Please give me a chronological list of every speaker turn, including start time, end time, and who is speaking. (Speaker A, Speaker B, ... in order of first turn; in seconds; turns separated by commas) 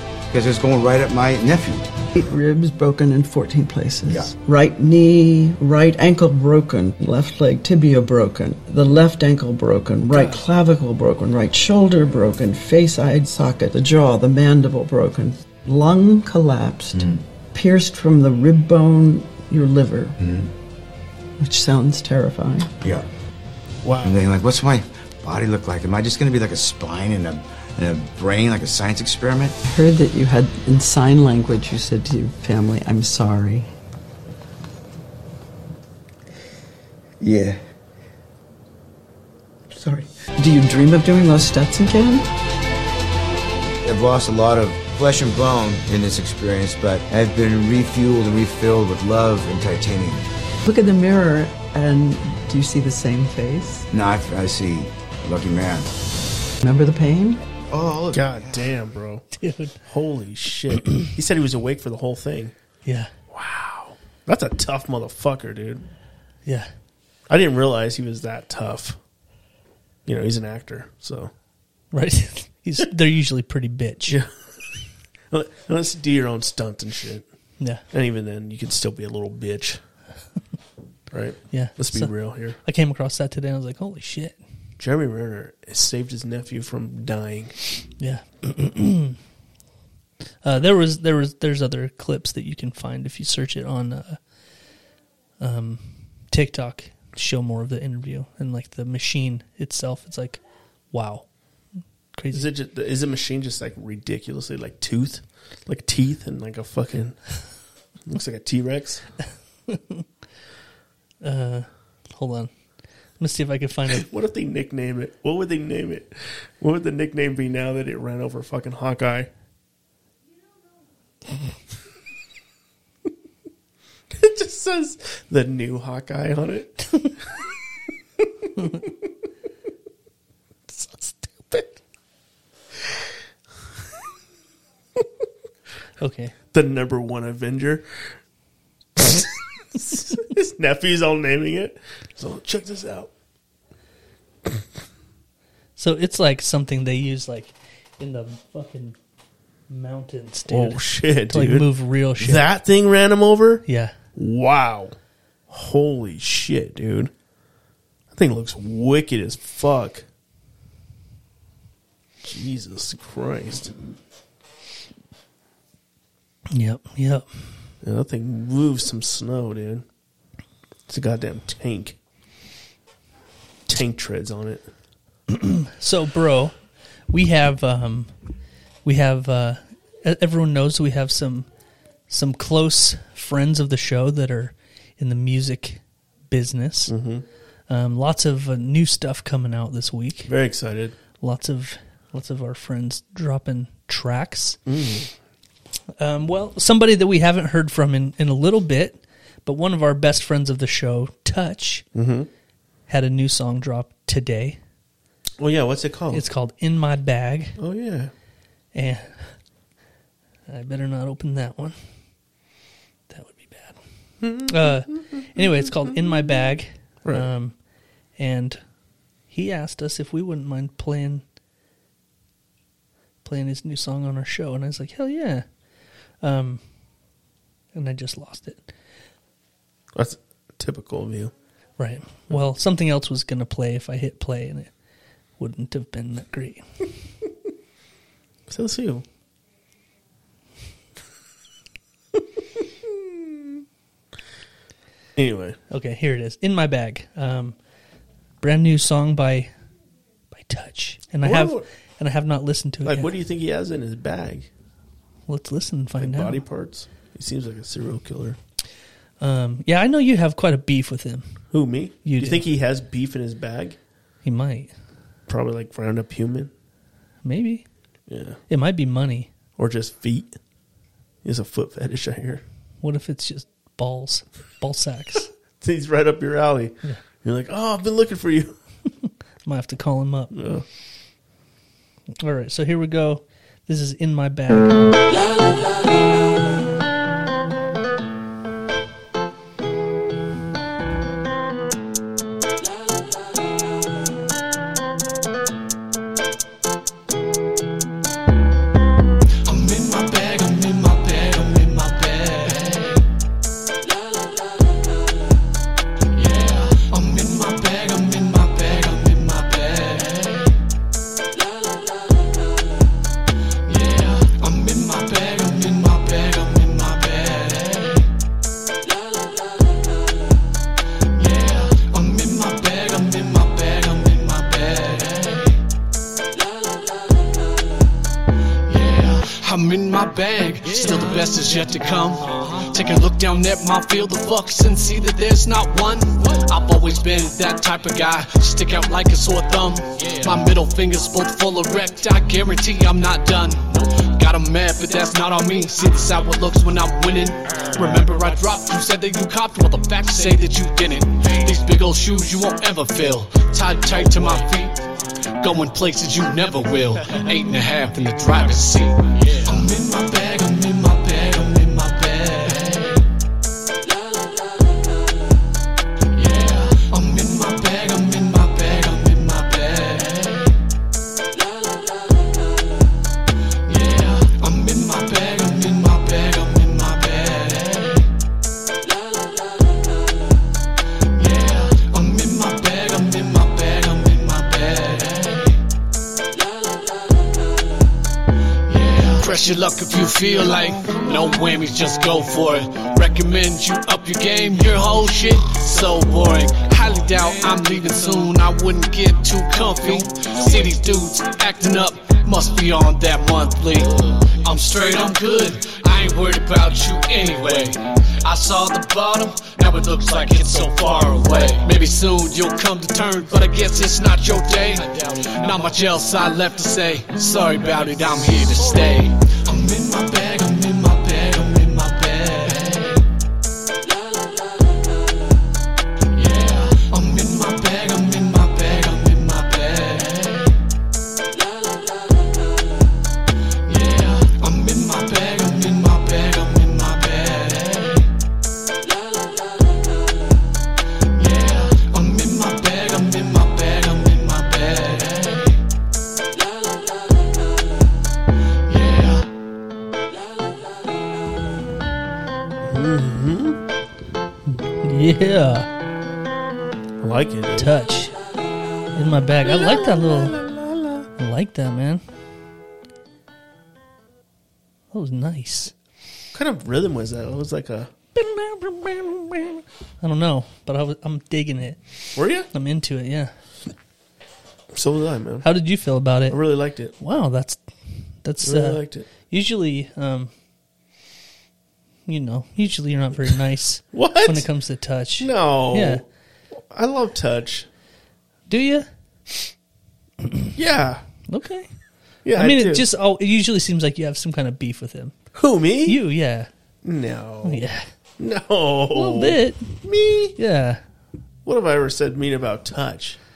Speaker A: 0.3-1.9, Speaker B: 2.1-20.2, Speaker C: 10.1-10.4, Speaker A: 16.9-17.2, Speaker A: 20.2-20.5, Speaker B: 21.4-22.7, Speaker C: 23.8-24.2, Speaker A: 24.0-29.6, Speaker B: 29.6-33.7, Speaker A: 37.2-37.6, Speaker A: 39.7-40.1, Speaker B: 40.4-42.2, Speaker A: 43.8-50.2, Speaker B: 50.6-53.9, Speaker A: 53.9-55.9, Speaker B: 56.6-57.4, Speaker A: 57.7-58.7, Speaker C: 58.1-59.2, Speaker D: 59.4-59.8, Speaker C: 59.8-62.5, Speaker D: 62.8-63.1, Speaker C: 63.3-65.8, Speaker C: 67.3-69.0, Speaker C: 70.0-71.3, Speaker D: 71.9-74.2, Speaker C: 75.3-77.2, Speaker C: 77.9-79.8, Speaker C: 81.1-82.6, Speaker D: 81.5-84.4, Speaker C: 84.8-87.5, Speaker D: 88.0-89.2, Speaker D: 90.4-94.2, Speaker D: 95.4-100.4, Speaker D: 100.9-101.3, Speaker D: 102.1-102.5, Speaker C: 102.3-107.2, Speaker C: 108.0-109.0, Speaker D: 109.7-110.0, Speaker D: 111.2-112.5, Speaker D: 113.2-114.0, Speaker C: 113.9-119.3, Speaker C: 124.1-127.0, Speaker C: 131.4-131.7, Speaker D: 136.0-136.3, Speaker C: 136.5-138.1, Speaker C: 139.0-143.1, Speaker D: 145.8-148.9, Speaker D: 149.7-152.4, Speaker C: 150.5-154.9, Speaker D: 153.7-153.9, Speaker C: 155.5-157.1, Speaker C: 158.1-160.0, Speaker C: 162.2-163.7, Speaker D: 166.5-167.3, Speaker C: 167.8-169.8, Speaker C: 170.9-172.0, Speaker C: 173.7-174.7, Speaker D: 175.3-176.6, Speaker D: 177.1-178.1, Speaker D: 178.8-181.5, Speaker D: 182.1-186.9, Speaker C: 186.9-187.2, Speaker D: 187.7-190.3, Speaker C: 190.3-190.9, Speaker D: 191.2-194.6, Speaker C: 194.7-195.1, Speaker D: 196.0-201.8, Speaker C: 201.9-202.3, Speaker D: 202.9-204.6, Speaker C: 205.4-206.2, Speaker D: 206.1-207.6, Speaker C: 207.6-208.1, Speaker D: 208.7-209.3, Speaker D: 210.5-211.8, Speaker D: 213.1-213.8, Speaker C: 214.2-216.1, Speaker D: 214.4-217.5, Speaker D: 218.2-218.6, Speaker D: 219.3-221.2, Speaker D: 223.2-225.4, Speaker D: 226.2-226.6, Speaker D: 227.7-228.7, Speaker C: 229.9-231.3, Speaker D: 231.8-234.7, Speaker D: 235.4-236.6, Speaker C: 238.5-239.0, Speaker C: 245.2-245.6, Speaker D: 245.7-247.6, Speaker D: 248.4-249.5, Speaker D: 250.3-253.1, Speaker C: 251.2-251.7, Speaker C: 252.8-254.5, Speaker D: 255.3-256.4, Speaker C: 256.0-258.4, Speaker D: 259.2-261.4, Speaker C: 261.5-263.8, Speaker D: 262.0-262.5, Speaker D: 264.2-264.7, Speaker C: 265.3-266.5, Speaker D: 267.2-267.6, Speaker C: 268.1-268.4, Speaker D: 268.5-269.3, Speaker C: 269.6-270.3, Speaker C: 271.2-272.4, Speaker D: 272.8-275.3, Speaker C: 275.6-278.6, Speaker D: 279.0-280.3, Speaker C: 280.3-280.6, Speaker D: 282.2-284.9, Speaker E: 299.5-302.7, Speaker E: 306.2-310.2, Speaker E: 313.8-317.7, Speaker E: 321.3-325.4, Speaker E: 328.7-354.8, Speaker E: 355.4-362.8, Speaker E: 366.2-370.1, Speaker E: 373.8-377.8, Speaker E: 381.3-385.4, Speaker E: 388.8-422.9, Speaker E: 426.2-430.1, Speaker E: 433.8-437.7, Speaker E: 441.7-445.3, Speaker C: 452.6-453.6, Speaker D: 454.5-455.7, Speaker C: 457.0-457.7, Speaker D: 457.6-458.1, Speaker D: 458.9-460.4, Speaker C: 459.4-461.1, Speaker D: 461.2-462.0, Speaker D: 464.9-465.7, Speaker C: 466.3-467.9, Speaker D: 468.1-471.8, Speaker C: 472.1-472.5, Speaker D: 472.4-473.3, Speaker C: 474.7-475.5, Speaker D: 475.4-476.4, Speaker C: 476.3-476.9, Speaker D: 476.9-477.6, Speaker D: 478.2-480.3, Speaker C: 478.4-479.1, Speaker D: 482.1-486.0, Speaker C: 483.9-484.5, Speaker C: 485.2-486.0, Speaker C: 486.6-487.7, Speaker D: 488.5-488.9, Speaker C: 490.6-491.0, Speaker D: 491.3-491.7, Speaker C: 492.2-492.8, Speaker D: 492.3-495.1, Speaker C: 495.3-496.0, Speaker D: 495.8-496.5, Speaker C: 496.8-497.6, Speaker D: 497.4-497.8, Speaker C: 498.2-500.4, Speaker D: 498.9-499.8, Speaker D: 500.4-500.8, Speaker C: 501.4-503.2